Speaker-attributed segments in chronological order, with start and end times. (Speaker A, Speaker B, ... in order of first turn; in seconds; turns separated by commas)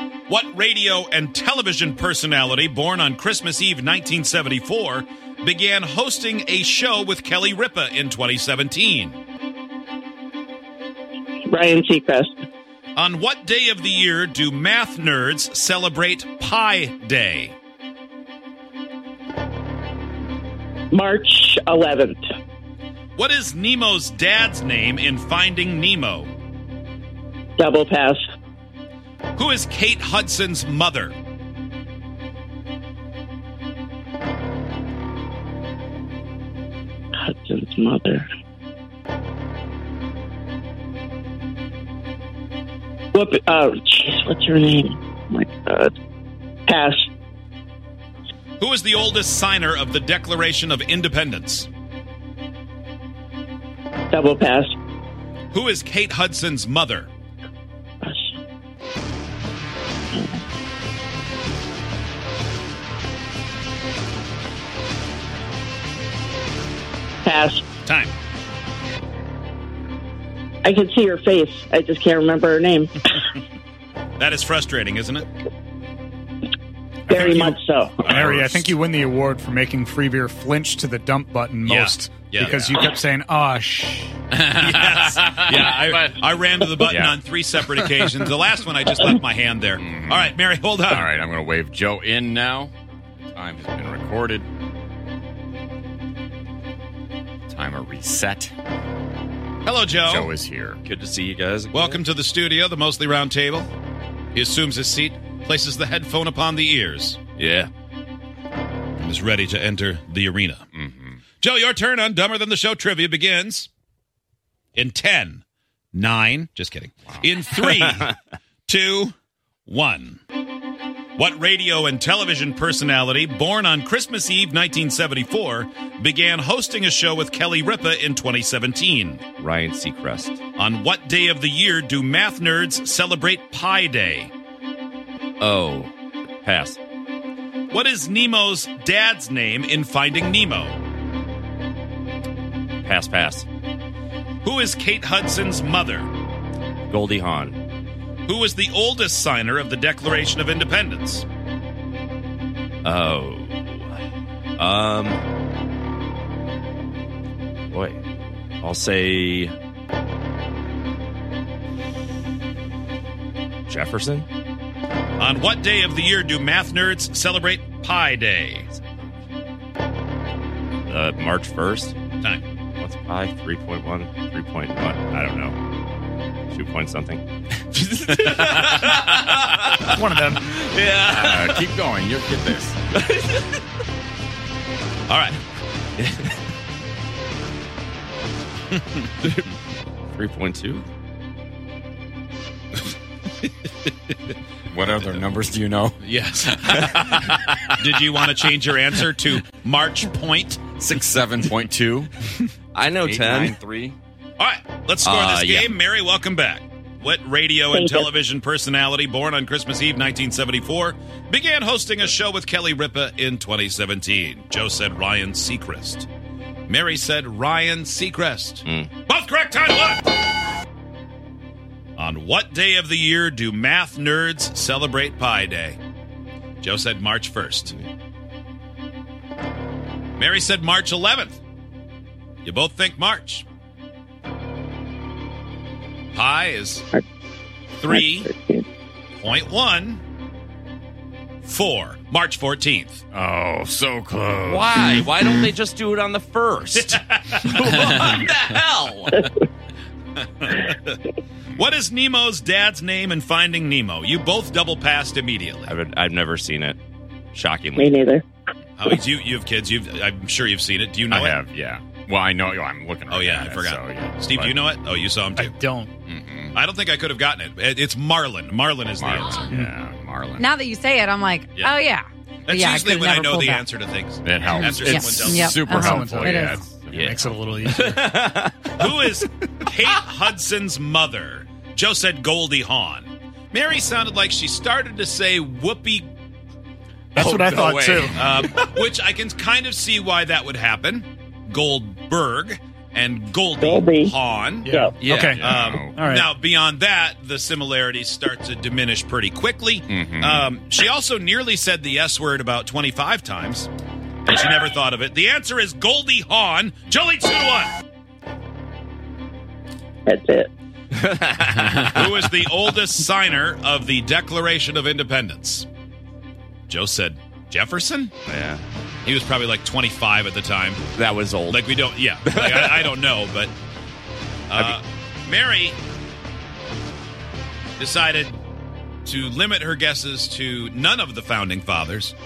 Speaker A: 0.3-9.2, Speaker B: 11.5-12.4, Speaker A: 12.9-17.6, Speaker B: 20.9-22.2, Speaker A: 23.1-26.3, Speaker B: 27.6-28.2, Speaker A: 29.4-31.1, Speaker B: 37.2-38.3, Speaker B: 43.1-45.9, Speaker B: 46.7-47.0, Speaker A: 48.6-51.7, Speaker B: 54.1-54.7, Speaker A: 55.5-57.1, Speaker B: 58.0-58.3, Speaker B: 60.1-60.4, Speaker B: 67.2-67.6, Speaker A: 67.8-68.1, Speaker B: 70.6-73.2, Speaker A: 74.2-75.2, Speaker B: 77.1-78.1, Speaker A: 77.1-78.7, Speaker C: 77.1-77.5, Speaker C: 78.0-84.2, Speaker A: 81.6-82.7, Speaker D: 82.4-82.7, Speaker D: 84.3-86.2, Speaker A: 84.5-91.1, Speaker D: 86.7-88.2, Speaker D: 89.8-90.3, Speaker D: 90.9-94.5, Speaker D: 97.5-98.5, Speaker A: 99.6-100.3, Speaker D: 100.0-100.8, Speaker E: 100.8-102.0, Speaker A: 101.7-103.7, Speaker A: 104.3-107.2, Speaker E: 107.4-107.7, Speaker A: 109.0-110.7, Speaker D: 110.7-111.2, Speaker A: 111.4-113.7, Speaker A: 114.7-118.1, Speaker A: 118.7-119.1, Speaker A: 119.7-120.2, Speaker A: 121.2-129.2, Speaker E: 129.4-130.4, Speaker A: 130.6-134.3, Speaker E: 135.4-136.8, Speaker A: 137.7-140.8, Speaker E: 142.8-143.4, Speaker A: 144.4-146.1, Speaker E: 146.9-147.6, Speaker A: 148.2-151.2, Speaker E: 152.8-153.9, Speaker E: 154.6-155.2, Speaker E: 157.7-158.0, Speaker E: 158.6-159.5, Speaker E: 163.7-164.3, Speaker A: 165.2-168.7, Speaker E: 170.9-171.9, Speaker E: 172.8-175.6, Speaker E: 176.5-181.6, Speaker C: 179.9-180.4, Speaker D: 181.1-182.8, Speaker E: 182.9-183.6, Speaker A: 185.1-185.4, Speaker E: 186.0-186.3, Speaker E: 189.2-189.5, Speaker E: 190.1-190.8, Speaker D: 194.7-197.7, Speaker A: 196.0-197.1, Speaker A: 197.8-200.8, Speaker D: 200.8-202.1, Speaker E: 202.7-203.6, Speaker D: 203.0-204.0, Speaker A: 204.4-216.1, Speaker E: 205.0-205.7, Speaker B: 207.7-208.1, Speaker A: 216.7-220.1, Speaker A: 222.0-225.8, Speaker A: 226.6-227.7, Speaker A: 230.2-231.4, Speaker A: 232.4-233.4, Speaker A: 236.1-236.9, Speaker A: 237.8-238.3, Speaker B: 237.9-238.6, Speaker A: 239.2-240.0, Speaker A: 241.4-243.0, Speaker D: 243.1-245.5, Speaker E: 244.4-249.3, Speaker A: 246.8-247.8, Speaker A: 250.4-251.0, Speaker A: 251.6-255.7, Speaker E: 255.7-256.8, Speaker E: 257.3-257.9, Speaker B: 257.8-258.2, Speaker A: 258.8-261.4, Speaker D: 261.1-264.6, Speaker A: 263.1-265.6, Speaker C: 265.4-265.9, Speaker D: 266.1-266.6, Speaker A: 266.5-269.5, Speaker D: 269.0-270.5, Speaker F: 270.4-273.7, Speaker A: 272.4-275.9, Speaker D: 274.2-277.7, Speaker F: 274.5-276.6, Speaker C: 275.8-278.0, Speaker E: 276.9-278.9, Speaker A: 278.8-286.1, Speaker C: 287.1-288.1, Speaker E: 287.1-288.5, Speaker D: 288.0-288.5, Speaker A: 288.1-303.7, Speaker B: 293.6-294.1, Speaker C: 294.7-295.4, Speaker B: 294.7-294.9, Speaker E: 295.0-295.3, Speaker D: 295.3-296.0, Speaker C: 295.9-296.3, Speaker D: 299.9-300.5, Speaker A: 304.2-307.7, Speaker B: 310.1-310.5, Speaker E: 310.9-312.3, Speaker A: 311.7-315.7, Speaker A: 316.7-318.1, Speaker E: 318.2-318.6, Speaker A: 319.0-320.8, Speaker E: 320.9-321.7, Speaker A: 321.5-323.5, Speaker E: 322.2-322.9, Speaker A: 324.5-325.8, Speaker A: 327.8-328.4, Speaker A: 329.0-332.1